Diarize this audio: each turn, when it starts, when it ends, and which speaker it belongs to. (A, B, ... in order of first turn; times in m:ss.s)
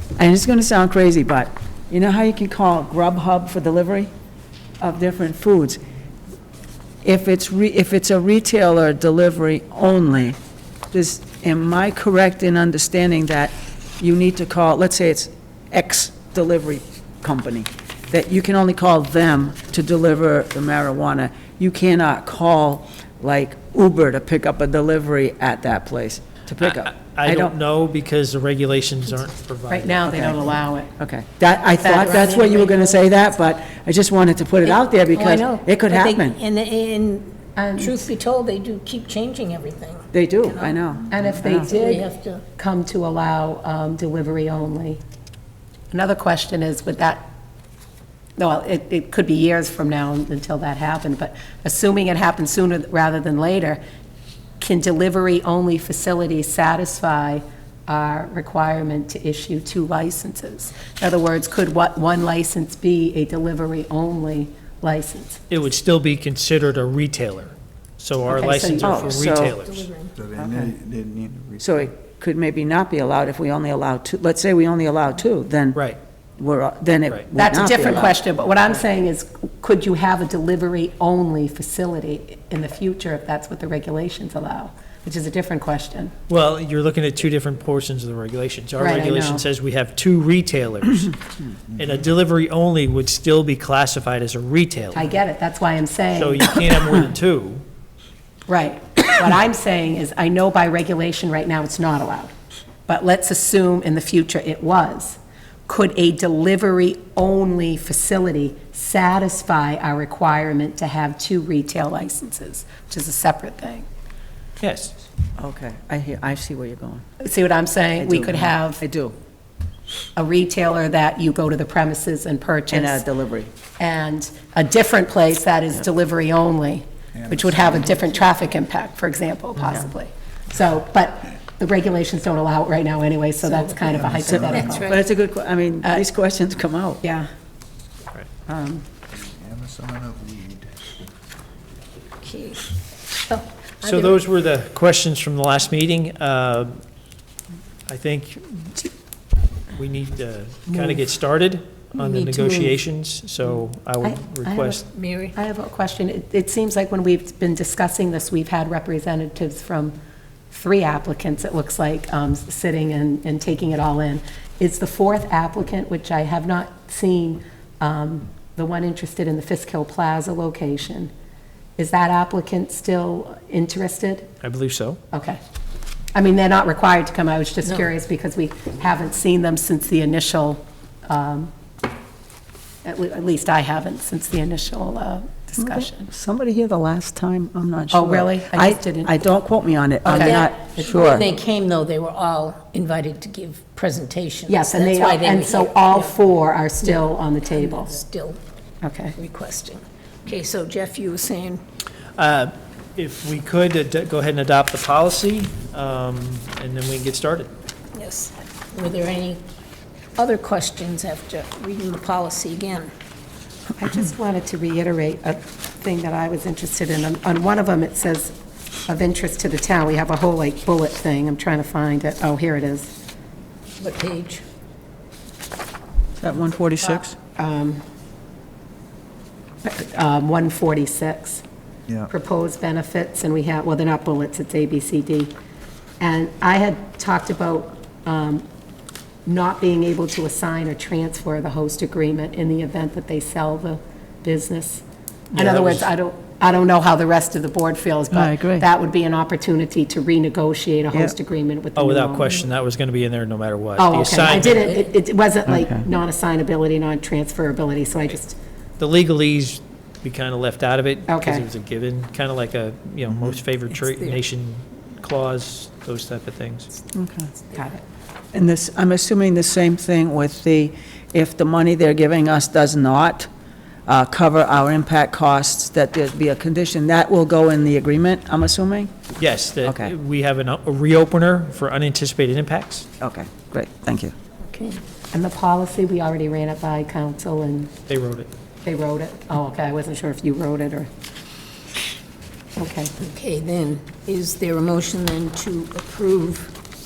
0:00.2-0:04.1 A
0:04.8-0:05.8 A
0:07.0-0:10.4 A
0:10.9-0:27.5 A
0:26.6-0:30.1 B
0:29.7-0:30.9 C
0:30.1-0:36.4 A
0:31.8-0:33.0 C
0:34.6-0:40.8 D
0:37.6-0:38.0 C
0:40.1-0:41.7 A
0:41.1-0:42.0 C
0:41.6-0:42.4 D
0:42.6-0:45.0 C
0:45.9-0:47.3 C
0:48.4-0:53.8 C
0:54.6-1:05.4 C
1:05.5-1:09.9 B
1:08.3-1:09.0 C
1:08.8-1:09.6 A
1:09.0-1:10.1 D
1:10.2-1:11.9 E
1:10.4-1:10.7 A
1:11.6-1:15.8 A
1:16.4-1:18.2 A
1:17.3-1:26.1 C
1:26.3-1:31.2 B
1:28.8-1:29.4 C
1:31.7-1:35.1 B
1:34.9-1:36.7 C
1:36.1-1:37.6 B
1:38.5-1:42.3 C
1:42.9-1:53.8 C
1:54.6-1:54.9 B
1:55.4-1:57.0 A
1:57.2-1:58.8 C
1:58.0-1:59.2 A
2:00.2-2:03.0 C
2:02.7-2:03.5 A
2:03.8-2:14.9 C
2:07.2-2:08.0 E
2:13.5-2:15.0 D
2:14.0-2:14.8 E
2:14.1-2:17.0 A
2:17.0-2:17.3 C
2:19.2-2:20.7 E
2:22.2-2:22.7 D
2:23.3-2:24.2 D
2:23.8-2:26.8 B
2:27.9-2:28.7 B
2:29.7-2:34.8 B
2:32.0-2:32.7 D
2:34.0-2:39.9 C
2:34.9-2:35.3 D
2:40.5-2:51.1 C
2:51.8-2:54.3 C
2:54.4-2:55.0 B
2:55.1-2:55.4 C
2:56.1-3:01.5 C
2:57.6-2:57.9 D
3:02.8-3:06.1 C
3:05.6-3:11.3 A
3:07.9-3:09.2 C
3:10.0-3:11.2 C
3:10.1-3:16.1 D
3:14.5-3:18.0 C
3:16.8-3:18.4 D
3:18.8-3:19.2 C
3:19.2-3:21.6 D
3:22.2-3:27.5 B
3:27.9-3:29.4 D
3:30.2-3:32.9 D
3:33.8-3:38.3 C
3:38.9-3:42.9 C
3:43.8-3:44.4 D
3:46.2-3:47.2 A
3:47.4-3:47.8 C
3:49.6-3:51.4 C
3:52.1-3:55.3 C
3:56.0-3:58.4 C
3:59.2-4:12.3 C
4:05.4-4:05.7 A
4:08.1-4:08.7 A
4:11.8-4:14.7 B
4:13.8-4:18.4 C
4:14.5-4:14.9 D
4:15.5-4:15.8 A
4:18.8-4:26.7 B
4:21.1-4:21.4 C
4:23.8-4:24.2 D
4:26.9-4:27.3 A
4:27.5-4:27.8 C
4:28.3-4:33.3 A
4:33.9-4:38.9 A
4:39.2-4:42.9 B
4:39.6-4:39.9 A
4:43.0-4:44.1 A
4:44.5-4:44.8 D
4:45.1-4:47.7 C
4:47.9-4:48.3 B
4:48.6-4:50.9 C
4:52.6-4:52.9 C
4:53.0-4:56.5 D